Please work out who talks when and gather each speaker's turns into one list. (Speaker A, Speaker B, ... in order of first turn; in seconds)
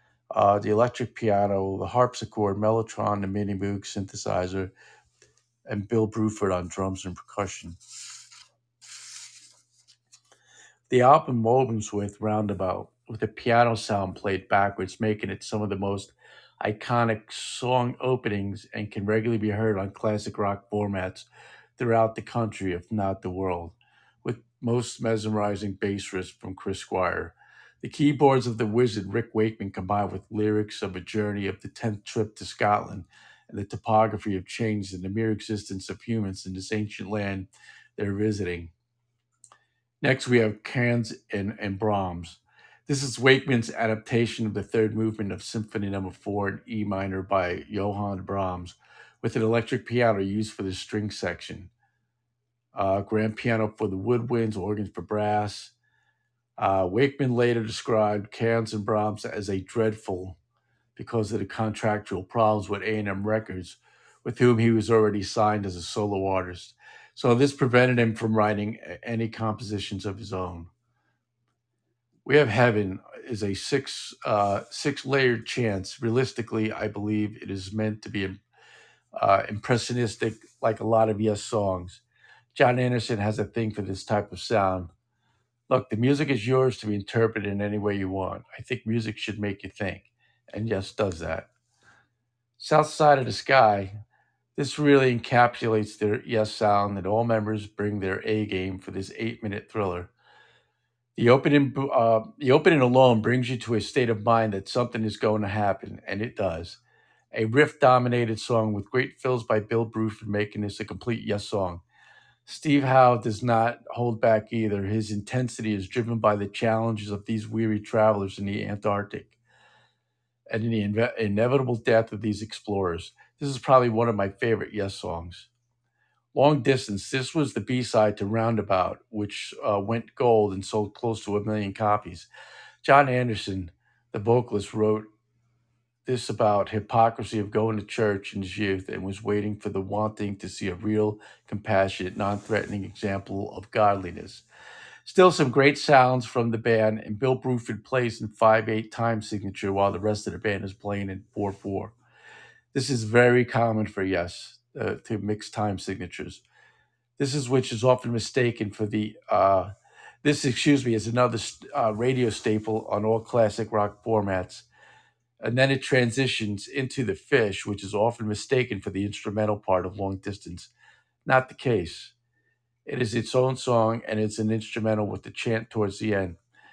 Speaker A: 0.3-4.7, 5.7-7.8, 10.9-38.7, 40.0-51.7, 52.7-55.7, 56.6-60.4, 61.0-70.7, 72.2-78.4, 79.2-82.0, 82.5-84.9, 85.7-91.5, 92.6-94.0, 94.6-100.1, 101.2-106.8, 107.3-111.8, 112.5-119.4, 120.5-125.5, 126.3-132.3, 132.8-135.1, 136.1-144.4, 145.1-151.9, 152.7-156.4, 157.2-159.7, 160.2-164.7, 165.4-170.7, 171.3-172.1, 172.9-176.4